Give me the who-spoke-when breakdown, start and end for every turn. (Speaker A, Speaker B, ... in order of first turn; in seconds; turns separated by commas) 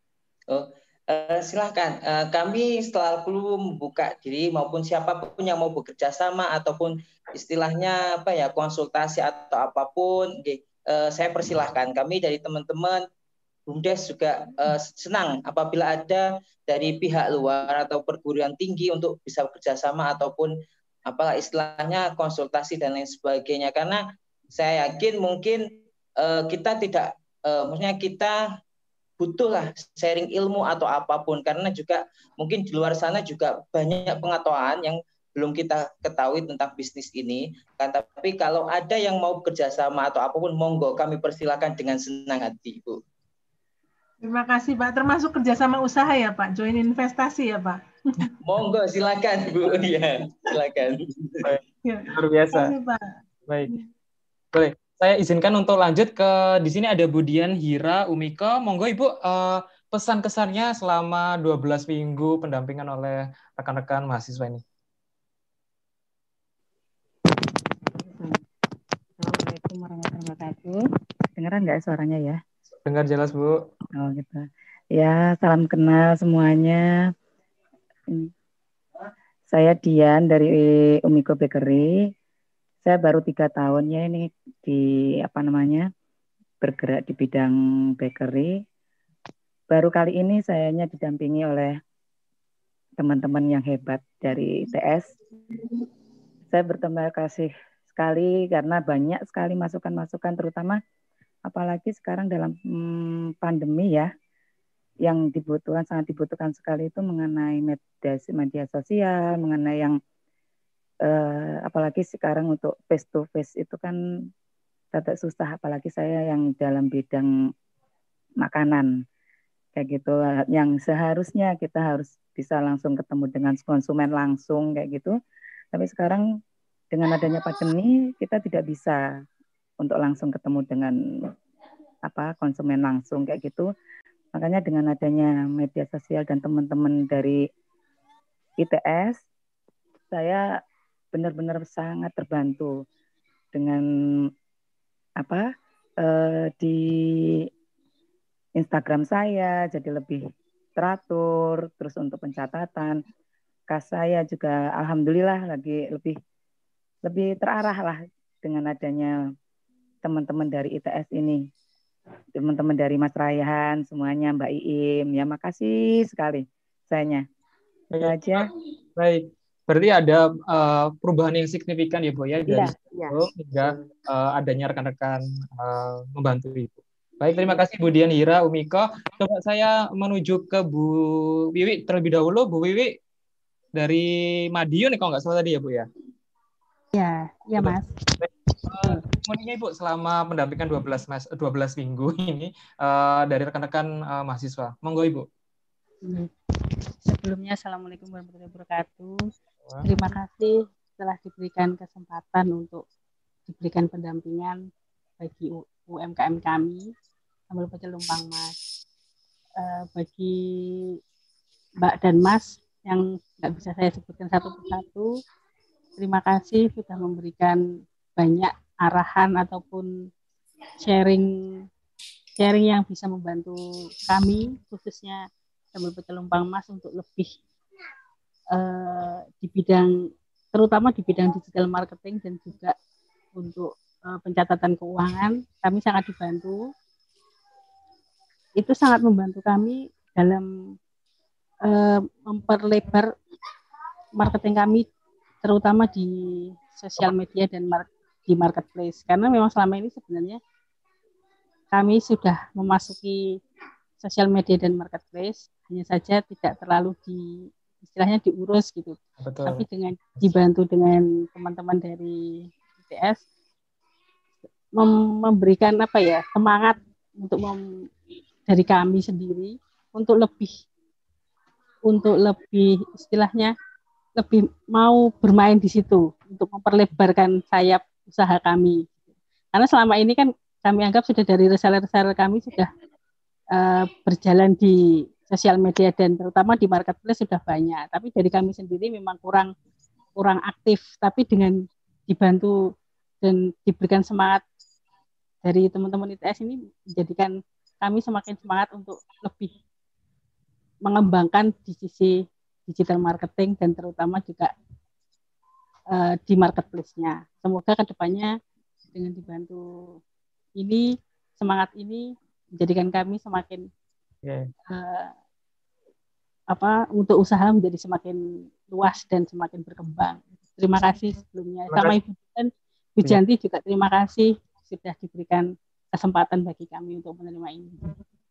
Speaker A: 0.5-13.0, Speaker A: 13.7-20.5, Speaker A: 21.1-28.4, Speaker A: 29.2-43.0, Speaker B: 44.2-48.3, Speaker A: 48.4-51.5, Speaker B: 51.8-53.1, Speaker C: 52.1-52.7, Speaker C: 54.5-64.6, Speaker D: 68.1-68.4, Speaker D: 69.2-70.8, Speaker D: 71.4-72.4, Speaker C: 72.9-73.7, Speaker D: 74.0-74.5, Speaker D: 75.0-76.8, Speaker D: 79.5-81.9, Speaker D: 82.9-85.9, Speaker D: 86.6-88.6, Speaker D: 89.7-91.8, Speaker D: 93.0-95.2, Speaker D: 96.5-100.8, Speaker D: 101.5-104.1, Speaker D: 105.0-110.0, Speaker D: 111.1-114.0, Speaker D: 114.9-117.3, Speaker D: 118.4-118.9, Speaker D: 119.8-125.1, Speaker D: 125.7-126.2, Speaker D: 126.9-129.0, Speaker D: 129.8-130.9, Speaker D: 132.1-133.7, Speaker D: 134.3-137.4, Speaker D: 138.6-139.2, Speaker D: 140.1-140.4, Speaker D: 141.1-142.7, Speaker D: 143.5-143.8, Speaker D: 145.2-145.5, Speaker D: 146.0-147.2, Speaker D: 148.6-150.2, Speaker D: 150.8-153.0, Speaker D: 153.7-156.2, Speaker D: 157.1-159.1, Speaker D: 160.0-161.4, Speaker D: 162.4-167.2, Speaker C: 167.9-183.0, Speaker D: 168.0-168.4, Speaker C: 183.8-185.9, Speaker E: 186.9-187.9, Speaker C: 187.6-195.3, Speaker E: 188.7-189.0, Speaker E: 196.1-196.3, Speaker E: 197.0-199.2, Speaker E: 199.8-202.8, Speaker E: 203.5-204.6, Speaker E: 205.2-206.9, Speaker E: 207.5-208.5, Speaker E: 209.6-210.4, Speaker E: 211.8-215.1, Speaker E: 216.0-217.6, Speaker E: 218.2-219.9, Speaker E: 220.8-221.3, Speaker E: 222.4-227.3, Speaker E: 228.5-229.9, Speaker E: 230.5-232.8, Speaker E: 233.3-236.7, Speaker E: 238.6-240.5, Speaker E: 241.7-243.1, Speaker E: 244.2-244.9, Speaker E: 245.4-250.4, Speaker E: 251.7-253.4, Speaker E: 254.0-263.2, Speaker C: 259.2-260.3, Speaker E: 264.8-267.6, Speaker E: 268.5-270.5, Speaker E: 271.9-273.5, Speaker E: 274.2-279.0, Speaker E: 279.5-282.7, Speaker E: 283.6-289.5, Speaker E: 290.2-291.6, Speaker E: 292.1-292.5, Speaker E: 293.2-294.4, Speaker E: 295.4-299.5, Speaker E: 300.9-304.5, Speaker E: 305.9-308.3, Speaker E: 308.9-310.0, Speaker E: 310.6-313.7, Speaker C: 314.2-314.5, Speaker E: 314.7-315.1, Speaker E: 316.5-327.9, Speaker C: 321.7-322.0